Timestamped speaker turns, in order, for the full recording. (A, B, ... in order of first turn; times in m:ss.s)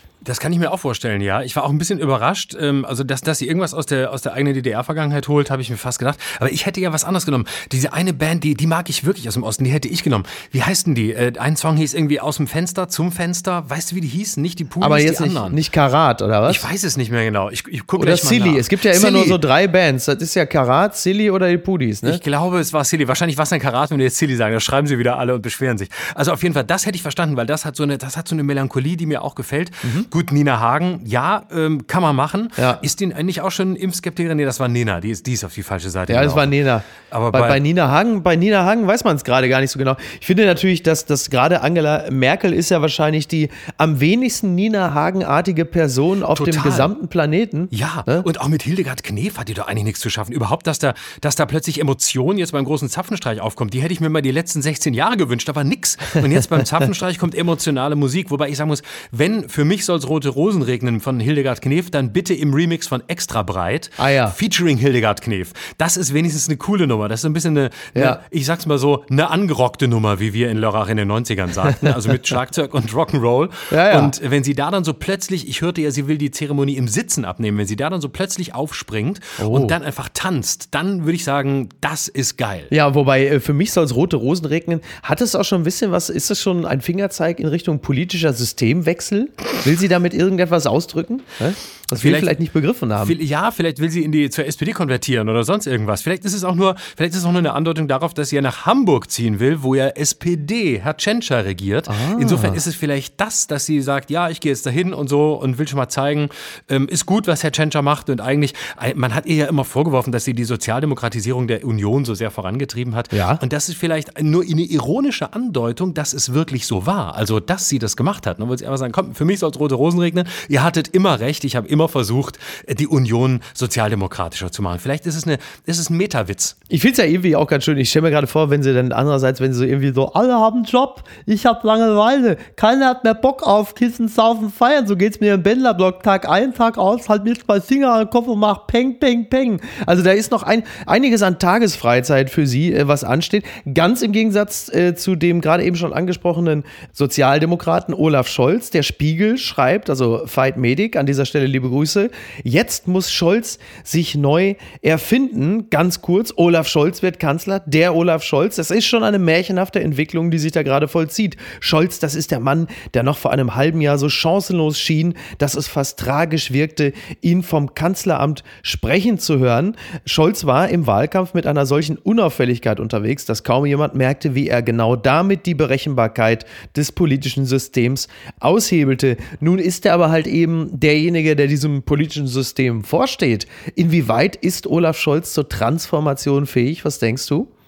0:00.2-0:15.6 A
0:14.8-0:16.6 B
0:16.5-0:19.4 A
0:18.0-0:22.2 B
0:22.0-0:37.6 A
0:36.1-0:48.3 B
0:46.3-0:46.9 A
0:47.7-1:22.7 A
1:04.0-1:04.4 B
1:07.9-1:08.2 B
1:13.7-1:14.1 B
1:19.4-1:19.8 B
1:22.7-1:33.2 B
1:31.9-1:32.4 A
1:33.0-2:06.6 A
1:41.9-1:42.6 B
1:53.1-1:53.4 B
2:06.7-3:07.5 B